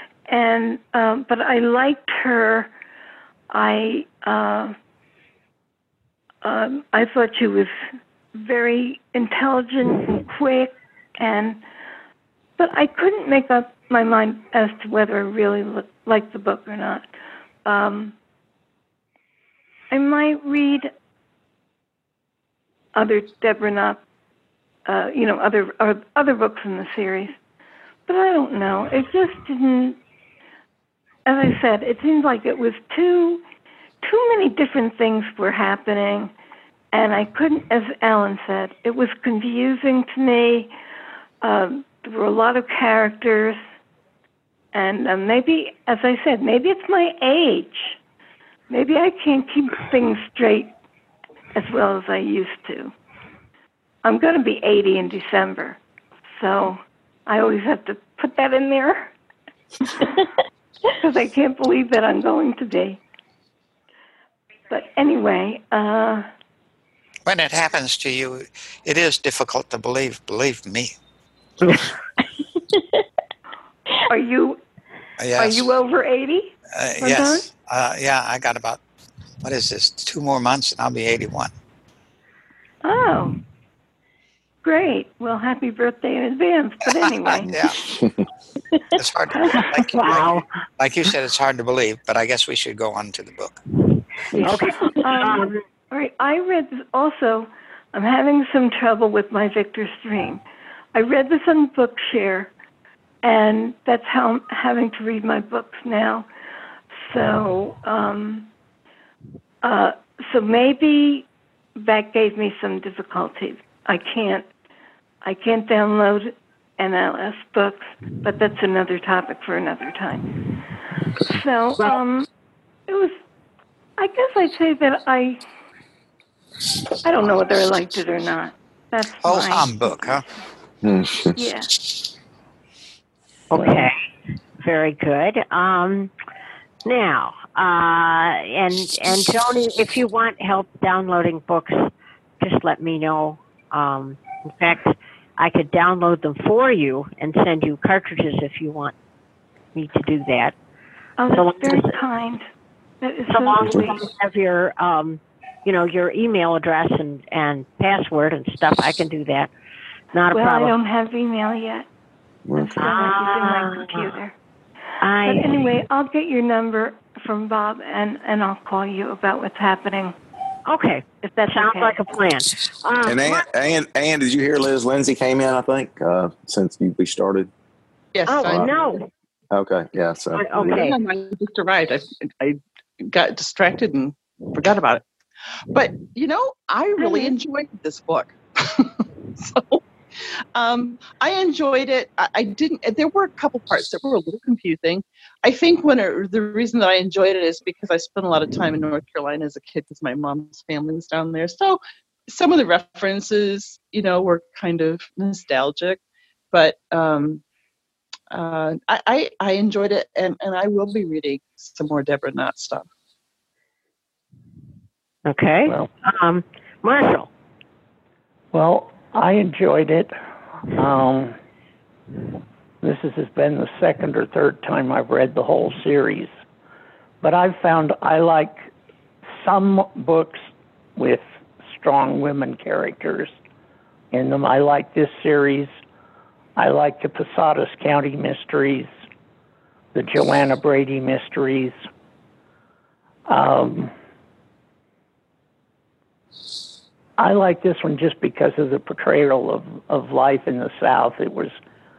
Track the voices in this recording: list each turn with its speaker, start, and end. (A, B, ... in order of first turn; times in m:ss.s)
0:00.3-0:02.7 A
0:03.5-0:04.8 A
0:06.4-0:07.7 A
0:08.4-0:11.6 A
0:12.6-0:17.1 A
0:17.6-0:18.2 A
0:19.9-0:20.9 A
0:23.0-0:24.0 A
0:24.9-0:27.4 A
0:28.1-0:30.0 A
0:31.3-0:33.4 A
0:34.0-0:36.3 A
0:36.9-0:40.7 A
0:41.4-0:43.6 A
0:44.7-0:48.0 A
0:48.7-0:50.7 A
0:51.6-0:52.9 A
0:54.0-0:55.8 A
0:56.4-0:59.1 A
1:00.0-1:00.2 A
1:00.9-1:03.0 A
1:04.7-1:06.3 A
1:07.3-1:11.0 B
1:14.0-1:14.6 A
1:15.2-1:15.6 B
1:15.4-1:17.5 A
1:16.7-1:18.8 B
1:19.4-1:21.5 B
1:22.8-1:23.4 A
1:24.6-1:27.5 A
1:27.4-1:27.8 B
1:27.5-1:28.2 C
1:28.9-1:33.6 B
1:29.3-1:29.6 A
1:29.9-1:30.4 D
1:34.3-1:40.4 A
1:34.4-1:35.6 D
1:40.9-1:42.5 A
1:43.2-1:46.3 A
1:46.9-1:48.5 A
1:49.6-1:54.5 A
1:55.2-2:00.4 A
2:01.3-2:02.3 A
2:02.9-2:03.2 A
2:04.0-2:05.4 A
2:07.0-2:10.1 A
2:09.2-2:10.2 B
2:10.8-2:11.4 C
2:11.4-2:11.7 A
2:13.5-2:14.0 D
2:13.6-2:13.9 E
2:14.6-2:16.1 D
2:16.8-2:28.9 D
2:29.8-2:30.6 D
2:31.2-2:32.4 A
2:31.3-2:32.0 D
2:33.0-2:34.0 A
2:33.3-2:39.5 D
2:33.6-2:34.0 C
2:40.1-2:40.8 D
2:40.3-2:41.9 A
2:42.5-2:42.9 C
2:42.6-2:44.3 A
2:42.8-2:44.1 D
2:45.0-2:45.7 D
2:45.2-2:50.2 A
2:50.7-2:53.5 D
2:51.2-2:52.0 A
2:53.0-2:57.5 C
2:58.1-2:58.9 F
2:58.3-2:59.1 D
2:59.5-3:00.8 C
3:00.3-3:01.0 D
3:00.6-3:05.0 F
3:05.7-3:09.8 F
3:07.0-3:07.4 A
3:10.6-3:26.0 F
3:26.5-3:27.4 F
3:28.3-3:32.9 F
3:35.3-3:37.3 D
3:38.5-3:40.2 E
3:40.7-3:41.4 E
3:42.8-3:46.3 E
3:47.2-3:48.7 E
3:49.4-3:53.3 E
3:54.1-3:55.7 E
3:56.6-3:58.9 E
3:59.9-4:01.8 E
4:03.3-4:03.9 E
4:07.2-4:11.6 E